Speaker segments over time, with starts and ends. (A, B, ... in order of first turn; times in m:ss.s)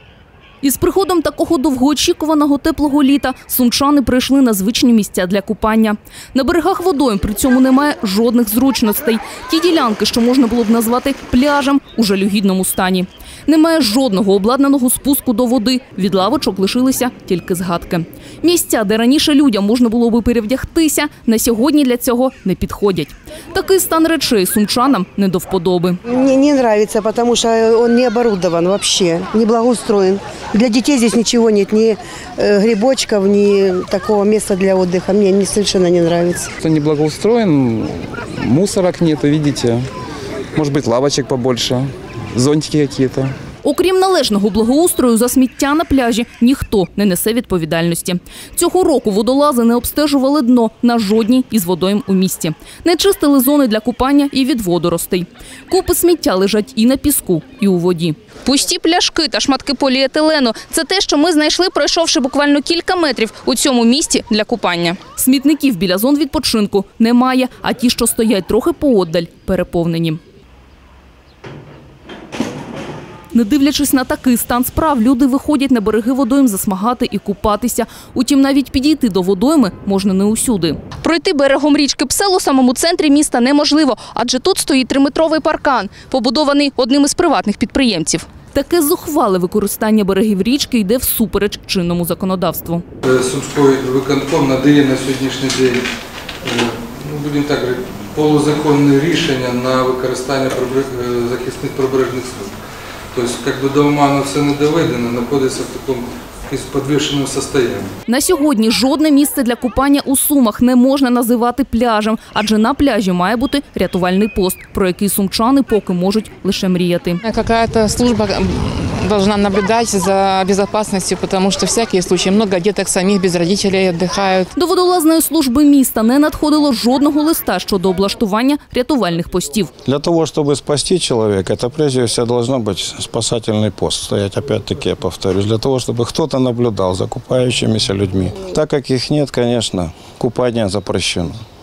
0:00.6-0:26.0 A
0:26.1-0:36.5 B
0:36.6-0:39.8 C
0:40.6-0:43.3 C
0:43.6-1:10.2 A
1:13.3-1:32.8 A
1:33.0-1:35.8 D
1:36.4-1:42.5 D
1:43.1-1:47.9 D
1:48.1-1:57.2 A
1:57.2-2:04.5 E
2:04.6-2:09.7 A
2:09.8-2:21.4 F